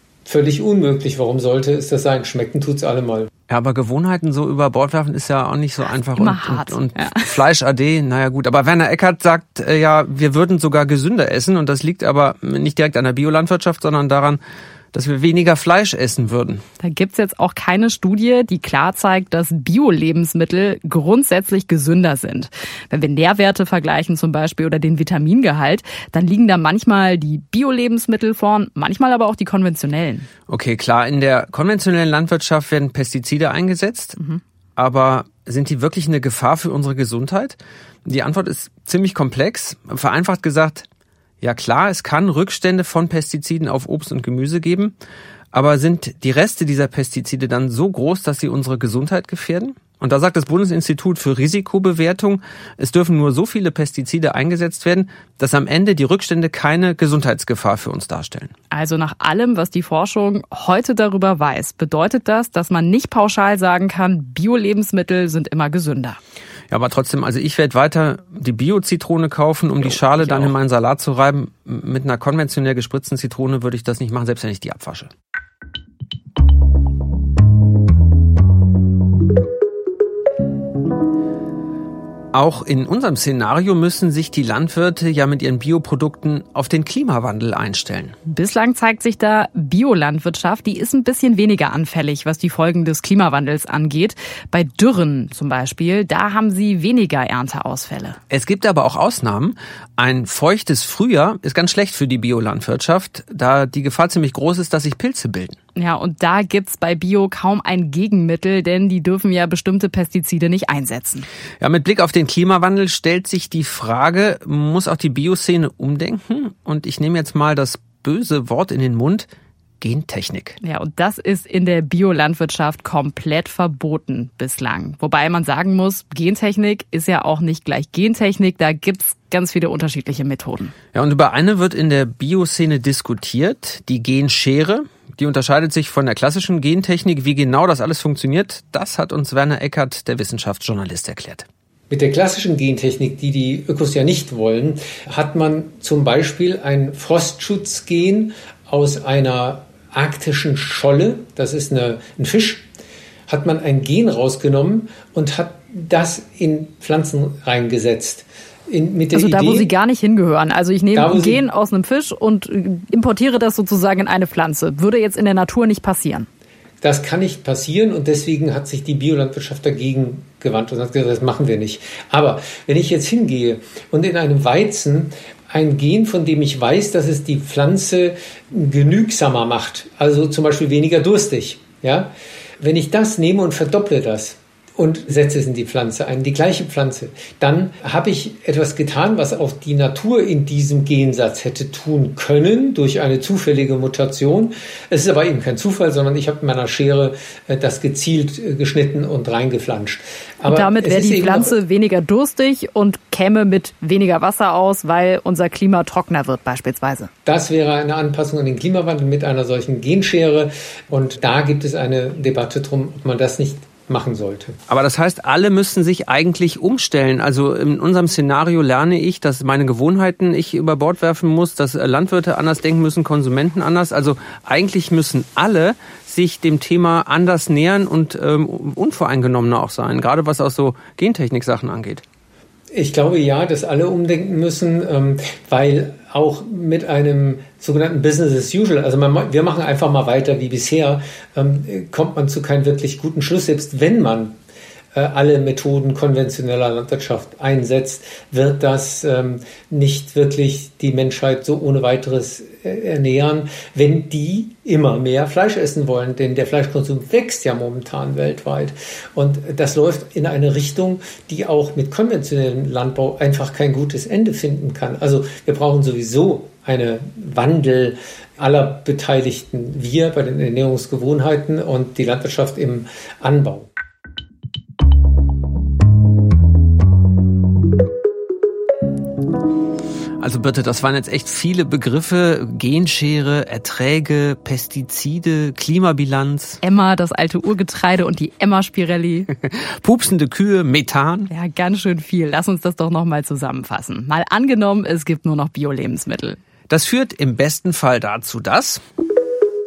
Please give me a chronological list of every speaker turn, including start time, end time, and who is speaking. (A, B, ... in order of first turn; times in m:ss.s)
0:00.2-0:03.3 A
0:03.5-0:14.4 B
0:06.1-0:07.3 C
0:14.9-0:16.6 B
0:16.8-0:30.3 C
0:30.5-0:34.2 B
0:34.8-0:40.8 B
0:41.4-0:44.9 B
0:45.5-0:58.5 B
0:58.7-1:06.2 C
1:06.7-1:15.1 B
1:09.8-1:10.5 C
1:22.3-1:28.1 B
1:28.2-1:38.2 C
1:38.3-1:45.6 B
1:45.8-1:51.3 C
1:51.6-1:59.3 B
1:59.8-2:00.6 B
2:00.6-2:10.7 C
2:10.9-2:21.4 B
2:21.9-2:32.6 A
2:33.3-2:39.7 A
2:39.1-2:46.3 C
2:40.9-2:41.4 A
2:46.8-3:02.1 A
3:02.6-3:21.5 A
3:20.4-3:27.1 C
3:27.2-3:34.6 A
3:34.7-3:52.0 B
3:52.7-4:04.4 A
4:04.9-4:33.7 A
4:40.2-4:46.6 B
4:46.6-4:49.3 C
4:49.4-4:51.3 B
4:51.3-4:56.4 C
4:56.7-4:58.8 B